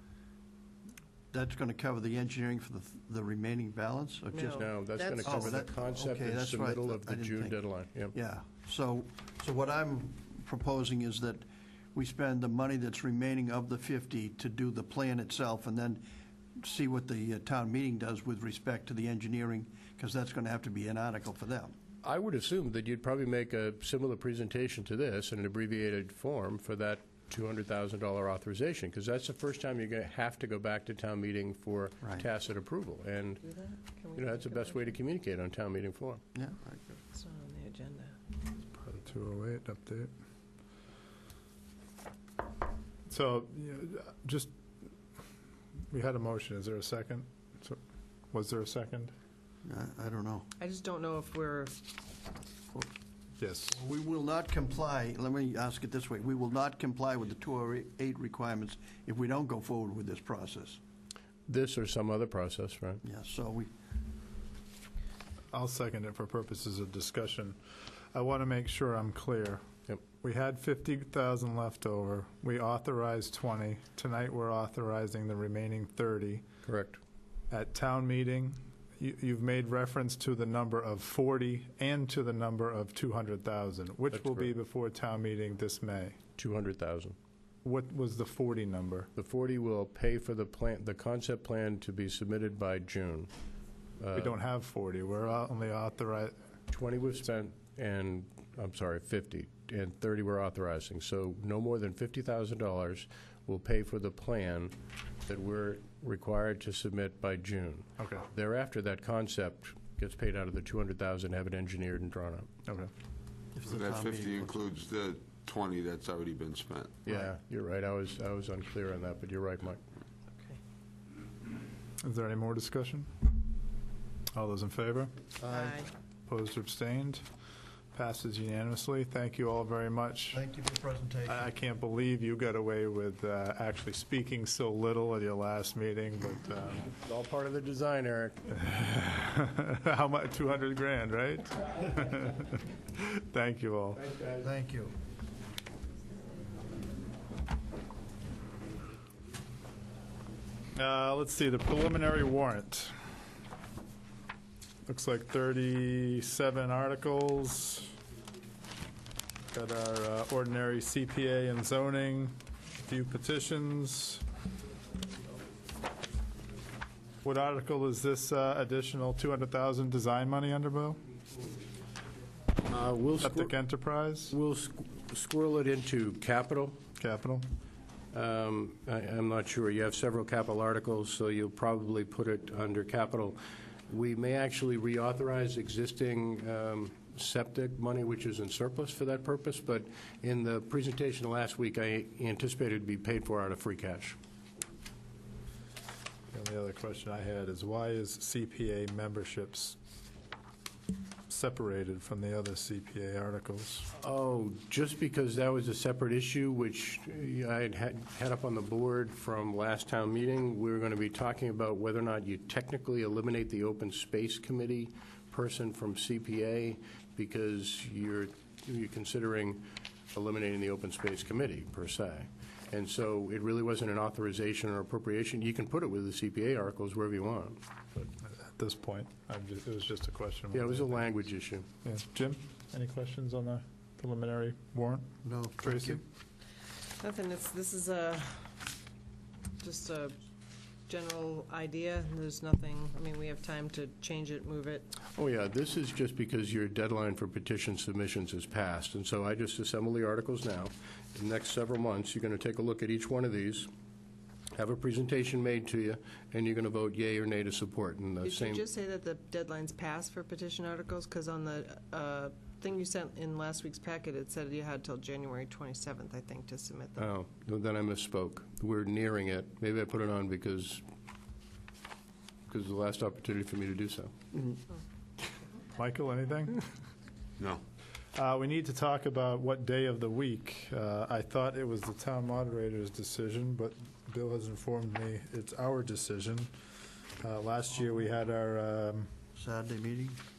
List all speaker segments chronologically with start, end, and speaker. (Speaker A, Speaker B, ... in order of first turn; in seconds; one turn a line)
Speaker A: 1.3-7.6
Speaker B: 4.3-5.6
Speaker C: 4.4-8.2
Speaker A: 8.1-16.0
Speaker A: 16.6-21.7
Speaker C: 22.0-33.4
Speaker B: 33.4-35.0
Speaker C: 34.1-36.2
Speaker A: 36.3-37.0
Speaker B: 37.1-38.2
Speaker D: 38.8-40.1
Speaker D: 43.1-44.5
Speaker D: 45.9-47.8
Speaker D: 48.3-49.1
Speaker A: 49.6-50.5
Speaker B: 50.6-51.8
Speaker D: 53.4-53.8
Speaker A: 53.7-60.8
Speaker C: 61.5-63.0
Speaker A: 63.0-63.7
Speaker D: 65.5-67.6
Speaker D: 68.1-69.6
Speaker D: 70.2-76.5
Speaker C: 76.7-77.0
Speaker D: 77.5-86.2
Speaker C: 84.1-84.5
Speaker C: 86.4-87.2
Speaker D: 87.6-89.1
Speaker C: 89.2-93.3
Speaker C: 94.0-94.4
Speaker D: 94.2-96.3
Speaker C: 96.7-104.7
Speaker C: 105.3-112.5
Speaker D: 108.0-108.3
Speaker A: 113.5-114.6
Speaker E: 113.7-117.0
Speaker C: 117.0-119.8
Speaker D: 122.0-123.1
Speaker D: 124.3-125.1
Speaker A: 125.4-125.9
Speaker B: 125.5-125.9
Speaker D: 126.3-127.2
Speaker D: 127.9-130.4
Speaker A: 130.3-131.5
Speaker D: 131.2-136.9
Speaker C: 137.0-138.5
Speaker D: 138.5-144.0
Speaker A: 144.4-144.9
Speaker D: 150.7-152.9
Speaker D: 154.9-157.9
Speaker D: 159.5-164.2
Speaker D: 167.2-171.0
Speaker C: 172.6-173.7
Speaker D: 173.2-174.4
Speaker C: 174.3-176.8
Speaker D: 177.0-177.4
Speaker C: 178.1-194.2
Speaker D: 196.3-199.8
Speaker D: 201.3-203.9
Speaker C: 203.9-227.6
Speaker D: 228.2-231.0
Speaker C: 230.5-231.7
Speaker D: 231.8-236.0
Speaker A: 235.2-236.0
Speaker B: 237.0-238.6
Speaker B: 239.6-240.2
Speaker B: 240.9-244.9
Speaker C: 245.2-253.7
Speaker C: 254.6-258.6
Speaker B: 258.2-267.1
Speaker C: 267.0-270.8
Speaker C: 272.5-274.1
Speaker D: 275.7-276.6
Speaker D: 278.1-286.5
Speaker D: 287.2-289.1
Speaker A: 289.4-290.2